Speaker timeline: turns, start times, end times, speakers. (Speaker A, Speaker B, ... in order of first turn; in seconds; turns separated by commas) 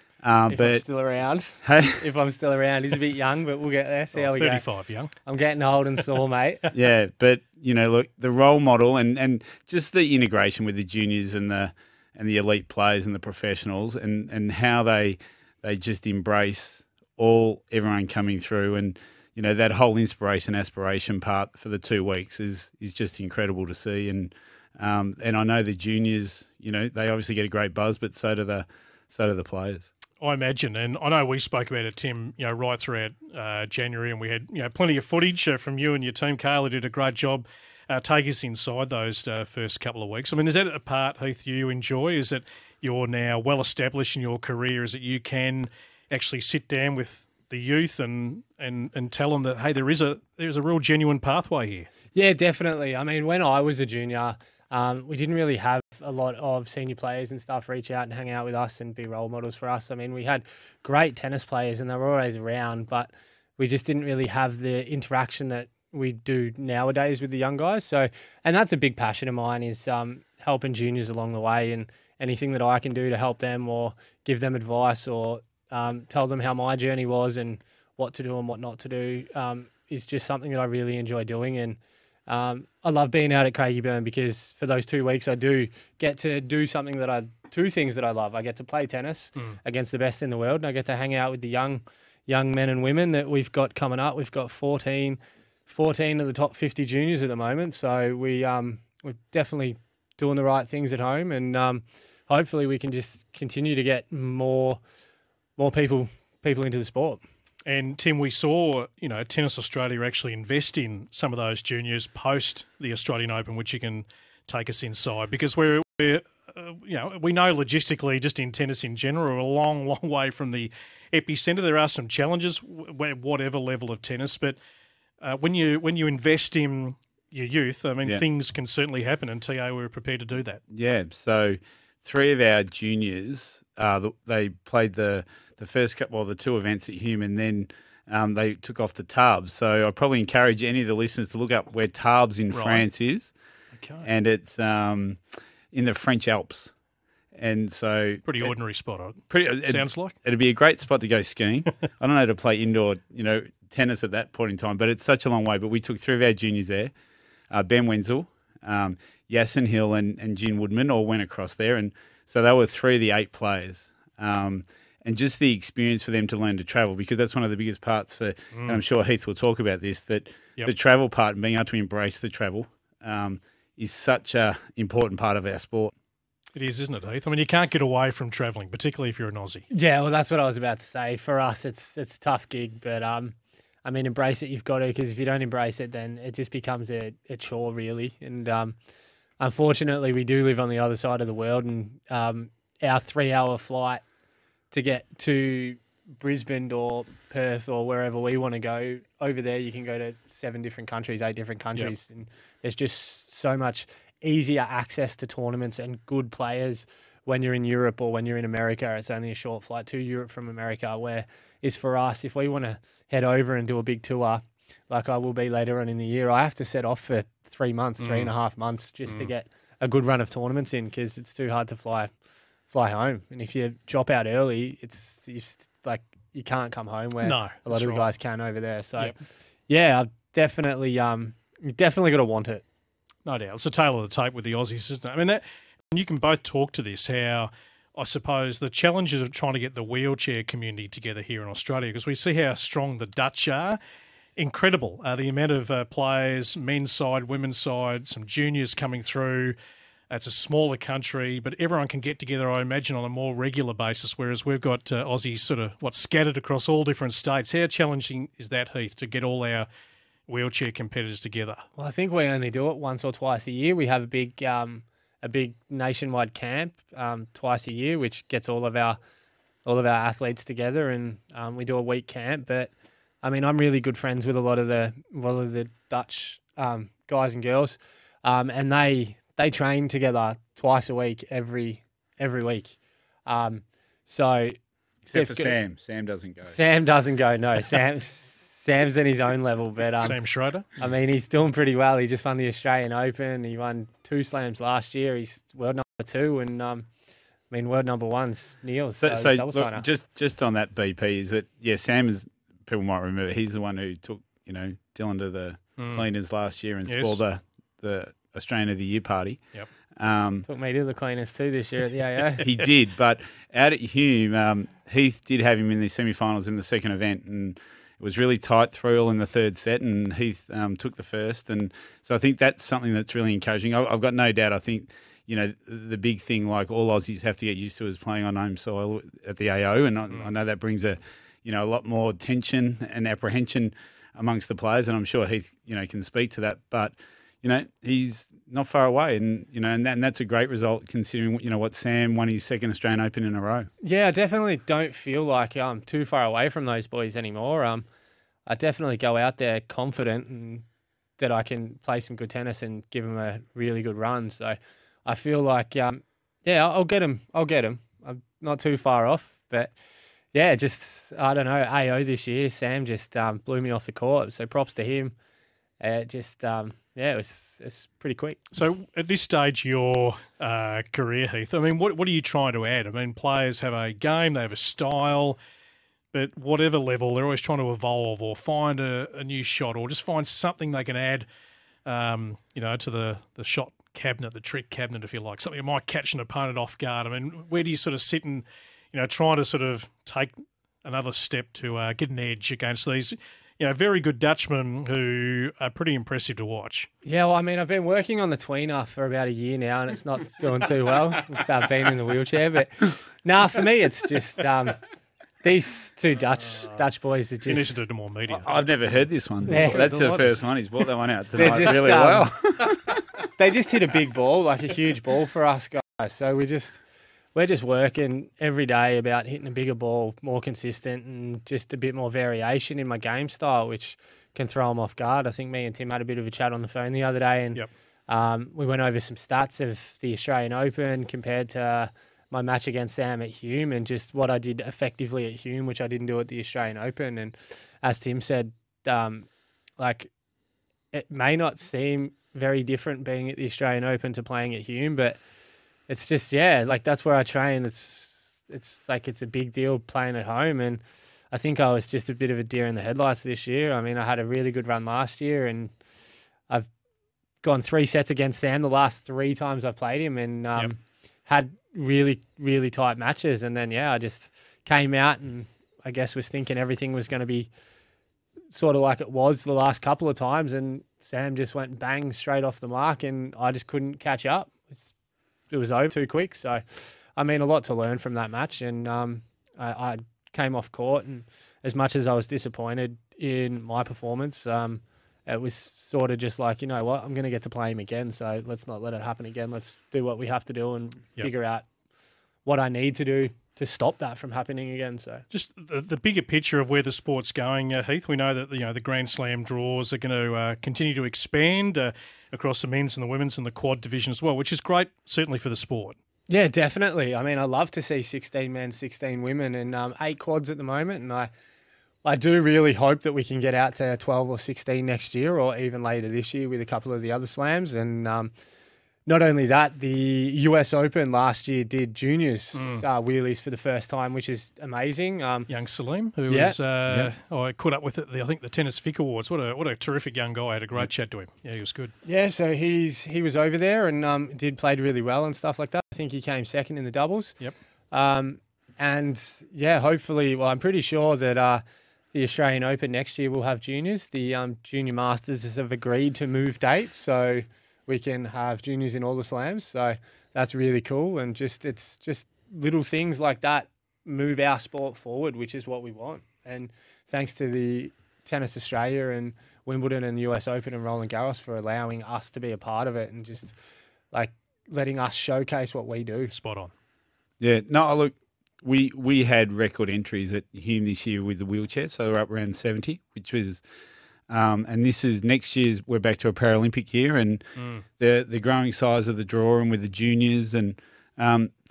Speaker A: 0.2-0.8, Speaker B: 0.5-4.6, Speaker A: 1.6-2.0, Speaker C: 4.2-5.1, Speaker B: 5.2-6.7, Speaker A: 6.7-29.9, Speaker C: 30.2-51.9, Speaker B: 52.1-104.8, Speaker B: 105.6-107.2, Speaker C: 107.7-124.6, Speaker C: 125.2-130.6, Speaker A: 130.7-143.3, Speaker C: 142.5-142.8, Speaker C: 143.8-144.1, Speaker A: 144.0-145.2, Speaker A: 145.7-146.7, Speaker A: 147.3-148.5, Speaker C: 148.2-150.2, Speaker A: 149.3-156.9, Speaker A: 157.5-175.9, Speaker C: 168.5-168.8, Speaker C: 176.5-179.6, Speaker B: 179.7-188.7, Speaker B: 189.4-194.0, Speaker B: 194.7-222.1, Speaker C: 218.0-218.3, Speaker B: 222.7-229.2, Speaker C: 227.2-228.1, Speaker B: 229.7-232.6, Speaker C: 233.2-243.8, Speaker C: 244.3-249.5, Speaker C: 250.1-259.7, Speaker C: 260.3-261.6, Speaker B: 261.8-269.0, Speaker B: 269.6-272.7, Speaker B: 273.2-284.6, Speaker A: 285.1-286.6, Speaker B: 285.1-285.6, Speaker B: 286.5-290.2, Speaker C: 290.0-290.7, Speaker B: 290.8-296.9, Speaker B: 297.5-299.9, Speaker A: 299.0-309.4, Speaker C: 305.8-306.0, Speaker C: 306.9-307.2, Speaker A: 309.9-310.4, Speaker B: 310.4-312.5, Speaker A: 312.4-343.7, Speaker B: 343.8-347.9, Speaker B: 348.4-350.6, Speaker B: 351.2-359.7, Speaker B: 360.3-365.1, Speaker B: 365.8-368.4, Speaker C: 368.5-375.4, Speaker C: 376.1-381.2, Speaker C: 381.9-396.9, Speaker B: 397.0-404.8, Speaker B: 405.4-407.8, Speaker C: 407.4-408.5, Speaker A: 408.4-412.8, Speaker C: 409.5-410.4, Speaker B: 409.5-409.8, Speaker B: 411.4-412.3, Speaker B: 413.4-416.8, Speaker B: 417.3-439.3, Speaker B: 439.8-440.1, Speaker B: 440.9-445.2, Speaker B: 445.9-450.8, Speaker B: 451.3-455.7, Speaker B: 457.4-467.5, Speaker B: 468.5-474.8, Speaker B: 475.5-491.6, Speaker B: 492.4-495.2, Speaker C: 495.3-505.9, Speaker B: 506.3-511.3, Speaker B: 512.0-518.3, Speaker B: 519.0-525.5, Speaker C: 522.5-522.8, Speaker C: 525.5-531.9, Speaker B: 526.3-526.6, Speaker B: 532.0-537.4, Speaker B: 537.9-563.5, Speaker B: 564.1-566.3, Speaker C: 566.3-566.7, Speaker A: 567.4-573.6, Speaker A: 574.3-581.5, Speaker C: 577.5-577.8